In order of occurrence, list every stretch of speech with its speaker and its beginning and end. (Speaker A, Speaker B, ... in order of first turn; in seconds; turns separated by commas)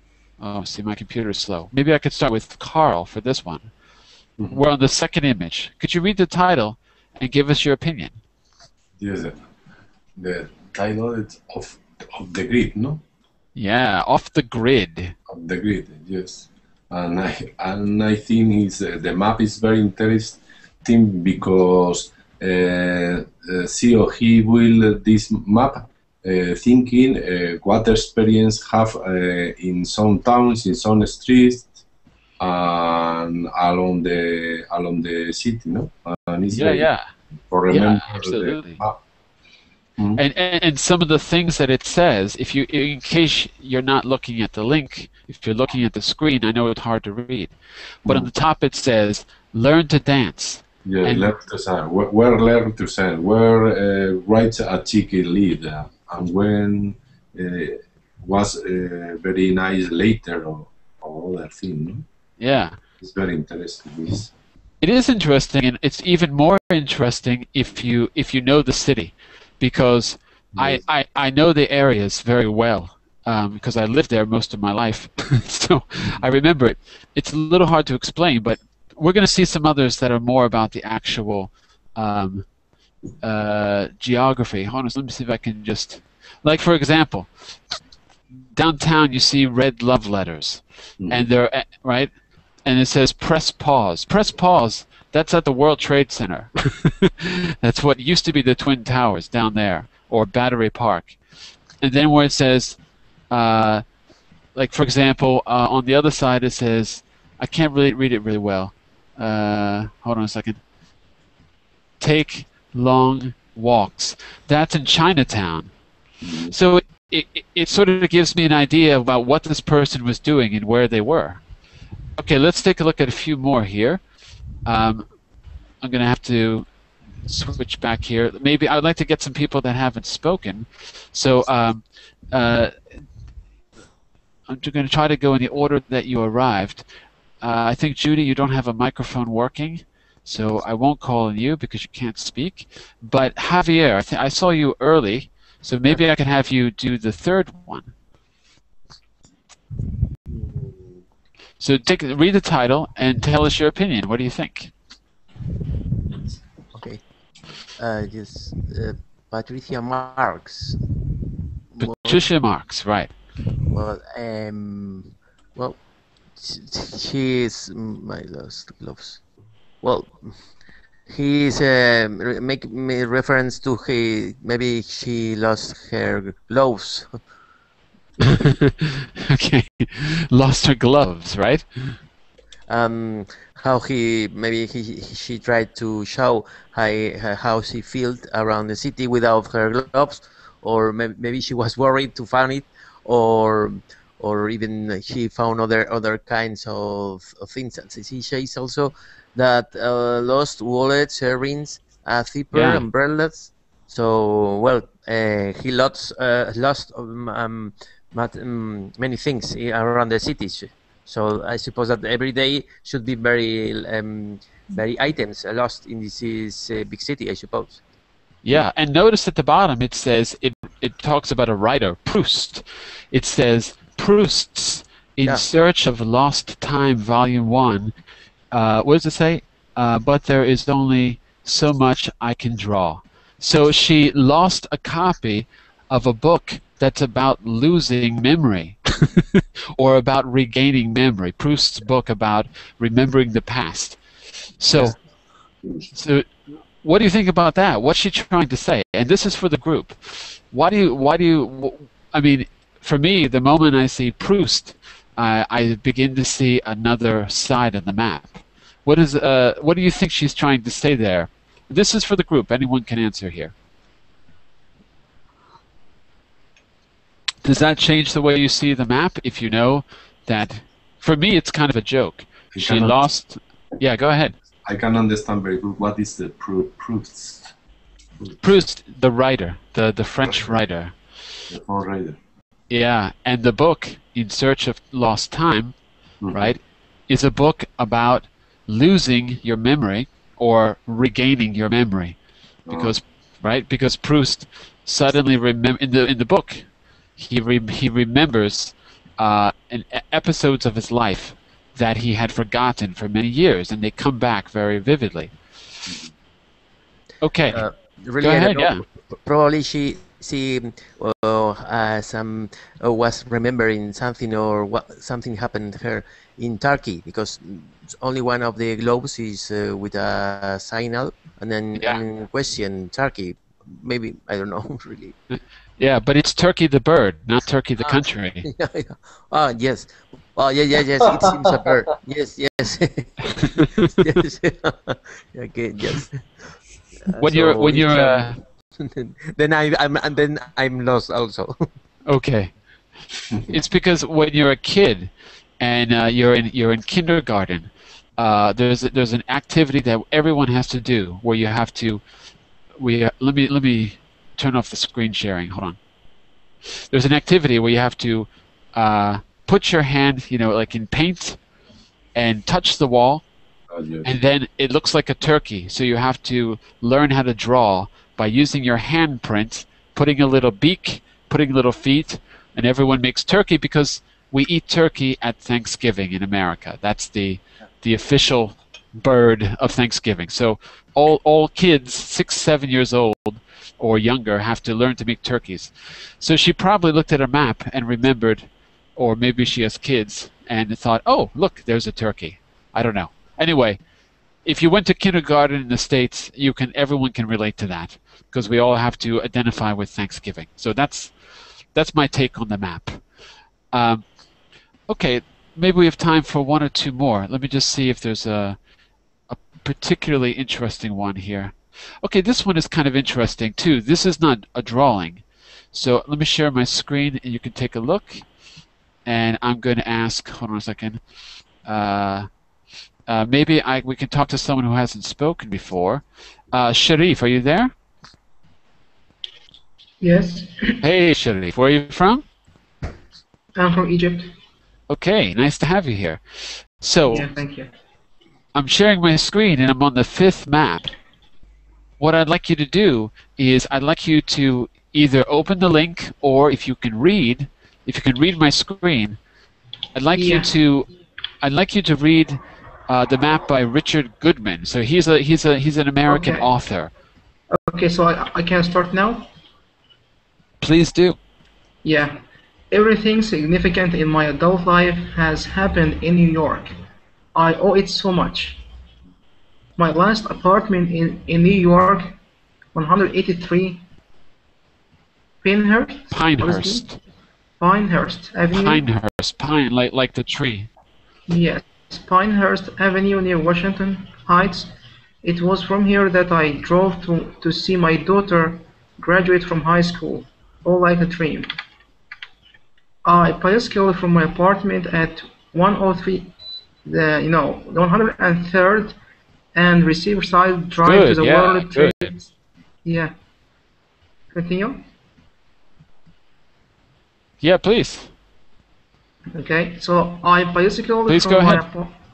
Speaker A: 0.4-3.7, Speaker A: 4.5-8.2, Speaker B: 9.0-9.4, Speaker B: 10.2-13.0, Speaker A: 13.6-15.1, Speaker B: 15.3-31.8, Speaker B: 32.4-36.9, Speaker A: 36.5-37.1, Speaker B: 37.5-39.0, Speaker A: 37.7-38.8, Speaker A: 40.1-51.3, Speaker B: 50.8-62.0, Speaker A: 62.4-62.8, Speaker B: 63.0-64.3, Speaker A: 64.8-82.5, Speaker B: 70.5-70.8, Speaker A: 83.2-87.3, Speaker A: 88.5-92.1, Speaker B: 91.0-91.3, Speaker A: 92.6-101.2, Speaker A: 101.8-102.8, Speaker A: 103.3-103.8, Speaker A: 104.5-110.6, Speaker A: 112.0-115.7, Speaker B: 116.2-116.5, Speaker A: 116.5-121.4, Speaker A: 122.2-124.0, Speaker A: 124.6-125.0, Speaker A: 125.8-126.7, Speaker A: 127.2-132.7, Speaker A: 134.5-136.8, Speaker A: 137.4-147.9, Speaker C: 150.3-151.0, Speaker A: 151.6-154.7, Speaker C: 156.7-157.0, Speaker C: 157.8-160.8, Speaker C: 161.7-162.2, Speaker A: 161.8-163.1, Speaker C: 163.6-165.8, Speaker C: 166.3-169.2, Speaker C: 169.8-170.4, Speaker C: 171.1-177.2, Speaker A: 178.2-182.0, Speaker C: 182.7-217.8, Speaker A: 202.5-202.8, Speaker A: 218.4-227.9, Speaker A: 228.5-244.0, Speaker A: 244.6-244.9, Speaker A: 245.9-263.5, Speaker A: 267.4-274.3, Speaker B: 272.5-273.0, Speaker B: 274.6-277.5, Speaker A: 278.4-280.9, Speaker B: 280.3-280.6, Speaker B: 281.5-282.2, Speaker A: 282.7-285.7, Speaker B: 286.2-286.5, Speaker A: 286.3-292.2, Speaker B: 292.7-292.9, Speaker A: 292.7-305.3, Speaker A: 307.2-307.6, Speaker C: 307.5-325.1, Speaker A: 308.2-308.8, Speaker A: 325.3-328.4, Speaker C: 327.8-336.5, Speaker C: 337.0-341.7, Speaker A: 337.2-338.4, Speaker A: 342.1-342.5, Speaker A: 343.5-352.0, Speaker A: 352.8-355.8, Speaker A: 356.9-361.4, Speaker A: 362.1-363.2, Speaker B: 363.7-364.1, Speaker A: 364.0-393.8, Speaker A: 394.4-401.1, Speaker A: 401.7-403.0, Speaker A: 403.7-404.0, Speaker A: 404.9-408.6, Speaker A: 409.3-418.2, Speaker A: 419.1-421.0, Speaker A: 421.6-422.3, Speaker A: 423.1-427.7, Speaker D: 430.0-430.8, Speaker A: 430.8-432.2, Speaker D: 433.6-434.3, Speaker A: 434.9-437.3, Speaker D: 437.1-437.7, Speaker A: 438.5-440.9, Speaker A: 442.0-449.2, Speaker A: 449.9-450.9, Speaker D: 450.1-450.5, Speaker A: 451.4-456.9, Speaker D: 456.1-456.5, Speaker D: 457.5-459.3, Speaker A: 460.6-461.2, Speaker D: 461.8-462.2, Speaker D: 462.7-466.8, Speaker D: 467.3-468.6, Speaker D: 469.8-472.2, Speaker D: 472.7-473.8, Speaker D: 475.4-476.8, Speaker A: 476.1-477.0, Speaker D: 477.6-478.9, Speaker A: 478.5-480.7, Speaker D: 481.3-491.5, Speaker D: 493.0-496.3, Speaker D: 496.8-499.0, Speaker D: 499.5-502.2, Speaker A: 500.8-502.1, Speaker D: 502.8-503.1, Speaker D: 504.3-504.8, Speaker A: 507.4-508.1, Speaker D: 509.3-511.9, Speaker A: 511.1-511.6